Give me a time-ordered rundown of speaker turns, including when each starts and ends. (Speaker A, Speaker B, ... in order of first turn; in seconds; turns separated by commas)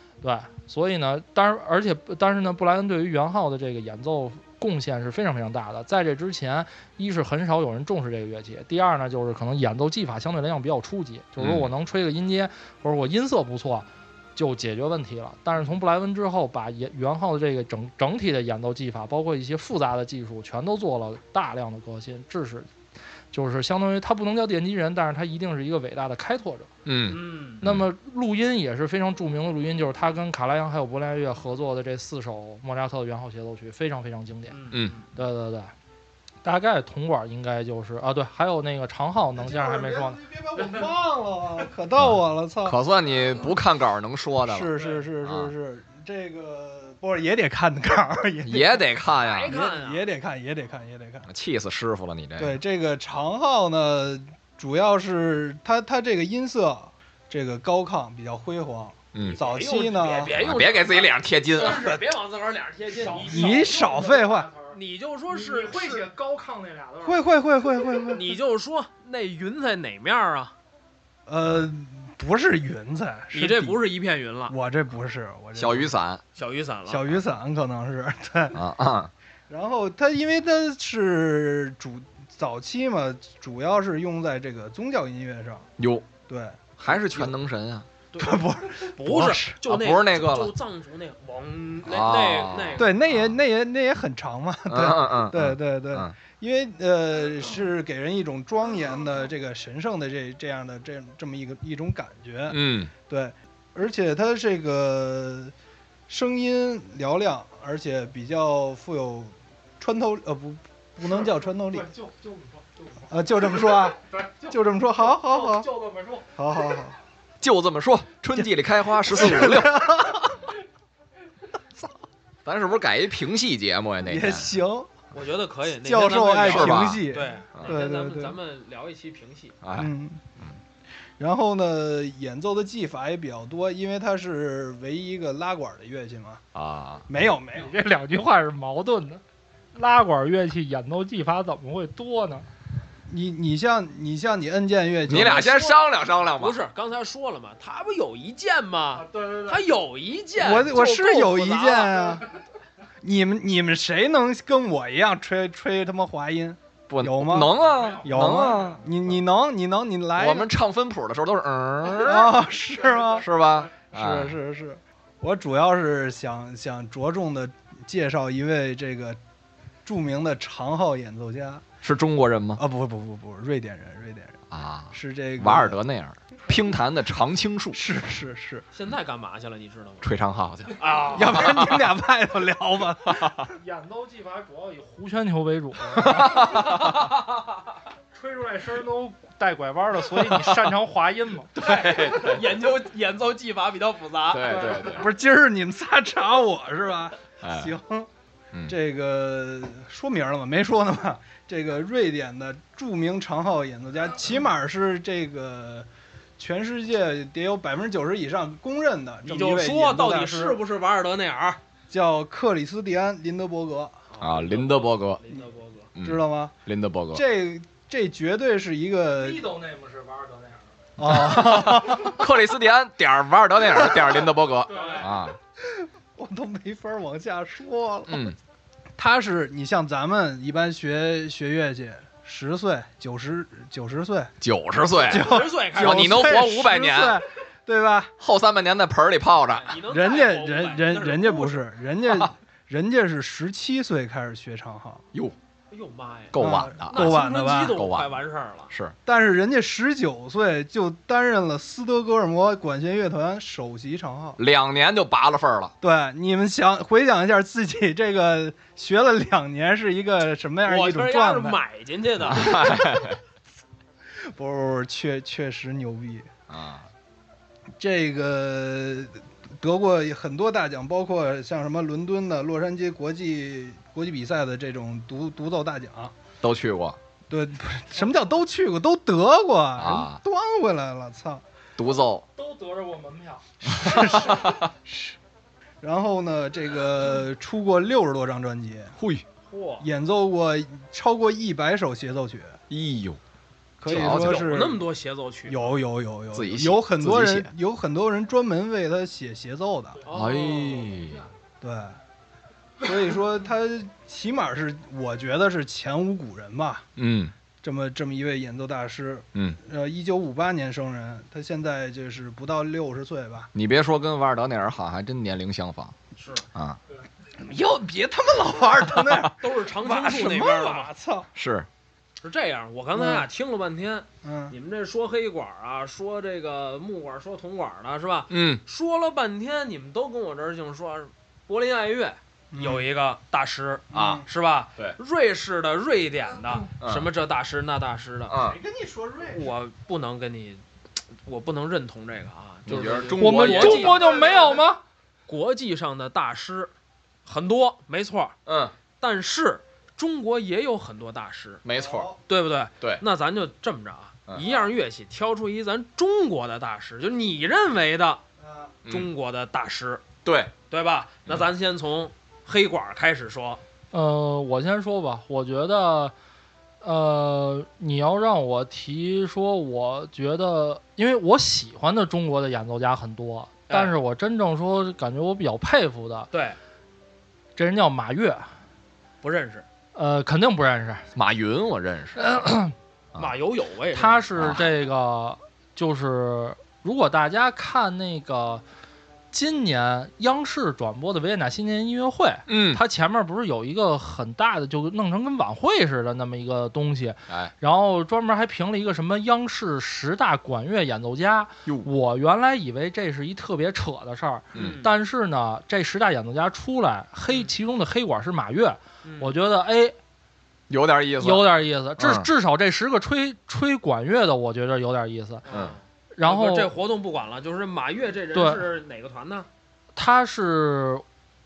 Speaker A: 0.2-22.7, Speaker B: 11.4-11.7, Speaker A: 23.3-26.7, Speaker B: 26.9-27.8, Speaker C: 27.1-27.6, Speaker A: 27.6-34.6, Speaker C: 34.5-35.0, Speaker A: 35.1-35.7, Speaker A: 36.4-40.2, Speaker D: 39.4-42.8, Speaker B: 42.0-44.7, Speaker D: 44.5-48.9, Speaker B: 45.2-45.5, Speaker B: 48.4-49.5, Speaker C: 49.1-50.0, Speaker D: 49.5-51.3, Speaker B: 51.3-52.6, Speaker D: 52.4-60.3, Speaker B: 59.1-59.4, Speaker C: 59.2-63.6, Speaker B: 60.3-62.0, Speaker D: 61.6-62.0, Speaker A: 63.0-64.8, Speaker D: 63.0-64.5, Speaker C: 64.7-66.1, Speaker A: 65.3-67.2, Speaker D: 67.0-68.4, Speaker C: 68.1-70.5, Speaker D: 71.3-73.8, Speaker C: 73.3-74.5, Speaker D: 74.5-75.9, Speaker B: 75.5-76.2, Speaker C: 76.3-77.2, Speaker D: 76.9-78.6, Speaker B: 78.5-79.1, Speaker D: 79.5-85.7, Speaker B: 85.8-86.1, Speaker D: 86.3-87.4, Speaker B: 86.8-87.9, Speaker C: 88.1-92.9, Speaker D: 88.2-89.6, Speaker B: 89.6-90.5, Speaker B: 91.8-93.3, Speaker D: 92.8-105.5, Speaker B: 94.7-96.1, Speaker B: 102.5-102.9, Speaker D: 106.1-111.9, Speaker A: 111.7-113.6, Speaker D: 113.1-115.7, Speaker A: 114.1-114.5, Speaker A: 115.0-116.3, Speaker D: 116.3-117.0, Speaker B: 117.4-120.2, Speaker D: 118.4-120.4, Speaker B: 122.4-124.5, Speaker D: 124.0-124.9, Speaker C: 125.1-129.6, Speaker D: 125.8-128.4, Speaker B: 126.4-127.7, Speaker B: 129.6-130.5, Speaker D: 129.7-130.2, Speaker D: 131.2-136.4, Speaker B: 136.5-137.0, Speaker D: 137.1-137.7, Speaker A: 137.5-139.2, Speaker A: 139.7-142.4, Speaker D: 143.1-145.7, Speaker B: 145.1-146.6, Speaker C: 145.1-152.2, Speaker A: 149.0-149.6, Speaker D: 150.3-152.3, Speaker D: 153.0-160.5, Speaker B: 156.9-158.9, Speaker B: 160.2-162.3, Speaker D: 161.9-169.2, Speaker B: 163.2-164.3, Speaker D: 169.8-171.6, Speaker B: 171.8-172.6, Speaker D: 172.6-174.4, Speaker B: 174.5-177.8, Speaker D: 174.9-175.8, Speaker D: 177.7-178.6, Speaker C: 178.7-180.2, Speaker B: 180.0-181.8, Speaker C: 180.7-181.7, Speaker D: 181.1-183.5, Speaker B: 183.1-183.5, Speaker A: 183.6-186.5, Speaker B: 186.0-186.9, Speaker C: 186.6-187.2, Speaker A: 188.1-191.5, Speaker B: 190.1-190.7, Speaker B: 191.5-192.5, Speaker C: 191.6-194.9, Speaker B: 194.3-195.1, Speaker D: 194.6-198.1, Speaker B: 197.4-197.7, Speaker D: 198.7-210.6, Speaker C: 209.2-211.6, Speaker D: 211.9-214.0, Speaker C: 214.1-215.9, Speaker B: 214.2-215.2, Speaker B: 215.9-217.2, Speaker D: 216.0-216.5, Speaker D: 217.1-219.4, Speaker A: 219.1-220.6, Speaker D: 221.0-222.2, Speaker B: 221.0-225.3, Speaker D: 223.7-224.1, Speaker A: 224.7-225.1, Speaker D: 225.6-228.3, Speaker B: 228.1-228.4, Speaker D: 229.0-234.3, Speaker B: 234.4-237.2, Speaker D: 235.0-238.1, Speaker C: 235.0-236.4, Speaker B: 238.2-239.8, Speaker C: 239.5-241.7, Speaker D: 239.8-245.0, Speaker C: 245.7-248.7, Speaker B: 246.3-247.2, Speaker D: 246.3-247.8, Speaker B: 247.7-248.2, Speaker D: 249.1-254.4, Speaker B: 254.4-255.7, Speaker D: 255.8-261.6, Speaker C: 260.6-262.8, Speaker B: 262.2-263.2, Speaker D: 264.2-266.3, Speaker B: 266.5-266.9, Speaker D: 267.8-276.1, Speaker B: 276.4-277.0, Speaker D: 277.3-281.4, Speaker B: 279.8-280.2, Speaker B: 281.8-282.2, Speaker A: 282.4-283.7, Speaker D: 283.6-285.2, Speaker B: 283.7-284.6, Speaker D: 285.8-288.9, Speaker B: 289.0-289.2, Speaker C: 289.5-289.9, Speaker D: 289.8-292.6, Speaker B: 292.7-293.2, Speaker D: 293.8-294.8, Speaker B: 293.8-294.5, Speaker C: 293.8-295.7, Speaker D: 295.5-300.0, Speaker B: 296.3-297.5, Speaker C: 300.1-301.1, Speaker B: 300.1-301.3, Speaker D: 301.6-302.0, Speaker D: 302.8-306.8, Speaker B: 306.9-307.3, Speaker D: 307.6-313.5, Speaker B: 313.5-315.9, Speaker C: 316.2-316.5, Speaker D: 317.3-321.3, Speaker C: 319.4-320.9, Speaker B: 321.4-321.7, Speaker C: 322.2-338.3, Speaker D: 322.9-323.2, Speaker D: 324.2-324.5, Speaker B: 328.3-328.6, Speaker D: 332.5-332.8, Speaker D: 333.9-334.2, Speaker B: 333.9-334.2, Speaker B: 336.8-337.1, Speaker B: 338.3-338.6, Speaker D: 338.4-339.5, Speaker C: 339.3-340.6, Speaker C: 341.2-344.3, Speaker B: 342.6-344.1, Speaker A: 343.2-344.8, Speaker C: 345.3-346.7, Speaker C: 347.2-348.3, Speaker B: 348.5-348.7, Speaker C: 349.0-351.6, Speaker B: 351.6-352.1, Speaker D: 351.7-352.2, Speaker C: 352.3-358.2, Speaker D: 358.4-358.7, Speaker C: 358.9-360.0, Speaker B: 360.2-360.5, Speaker C: 360.7-363.6, Speaker A: 363.9-366.1, Speaker A: 366.8-376.3, Speaker C: 373.7-373.9, Speaker C: 376.3-376.6, Speaker A: 377.6-378.6, Speaker C: 379.2-379.6, Speaker A: 379.9-381.1, Speaker B: 381.1-382.2, Speaker A: 382.1-382.7, Speaker C: 383.1-384.3, Speaker A: 383.9-388.6, Speaker A: 389.3-409.9, Speaker B: 392.5-392.8, Speaker B: 404.5-404.8, Speaker C: 404.5-404.9, Speaker C: 409.0-409.3, Speaker B: 410.7-412.3, Speaker A: 411.2-415.4, Speaker C: 415.4-419.5, Speaker B: 415.5-415.8, Speaker A: 416.1-416.7, Speaker A: 418.3-418.6, Speaker A: 419.9-421.0